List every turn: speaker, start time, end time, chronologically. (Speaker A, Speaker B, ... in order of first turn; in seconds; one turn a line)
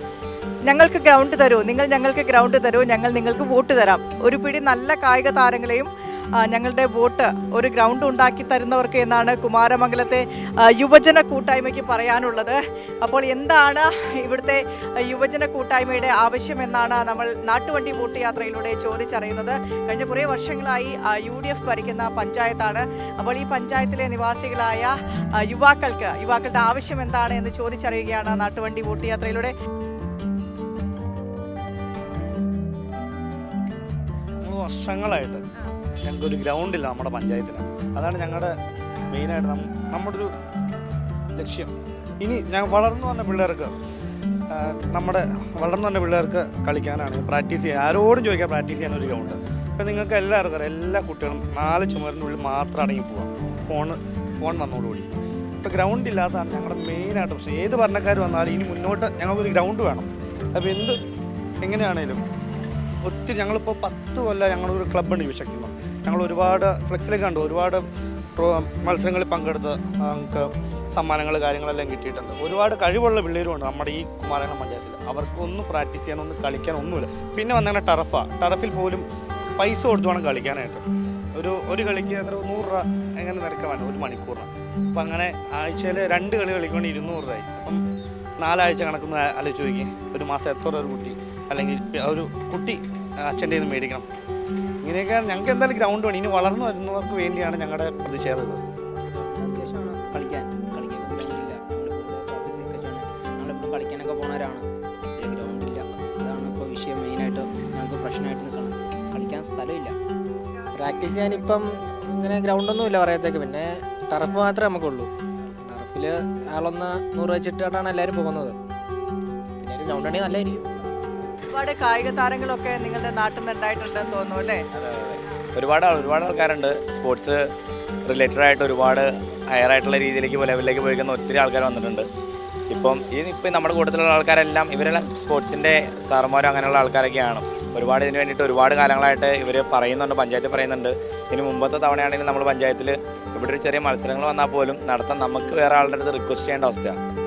Speaker A: 0.7-5.9
Speaker A: 6.5-29.5
Speaker B: 34.4-35.4
Speaker B: 36.0-38.5
Speaker B: 39.1-40.3
Speaker B: 41.4-43.7
Speaker B: 44.5-55.1
Speaker B: 55.6-61.0
Speaker B: 61.6-62.2
Speaker B: 63.0-67.8
Speaker B: 68.4-79.0
Speaker B: 79.6-87.8
Speaker B: 88.4-94.1
Speaker B: 94.8-98.6
Speaker C: 99.1-104.6
Speaker C: 105.2-109.9
Speaker D: 110.7-115.1
Speaker D: 115.6-118.6
Speaker D: 119.6-120.6
Speaker A: 121.5-124.7
Speaker E: 124.7-127.4
Speaker E: 128.1-132.1
Speaker E: 132.7-147.0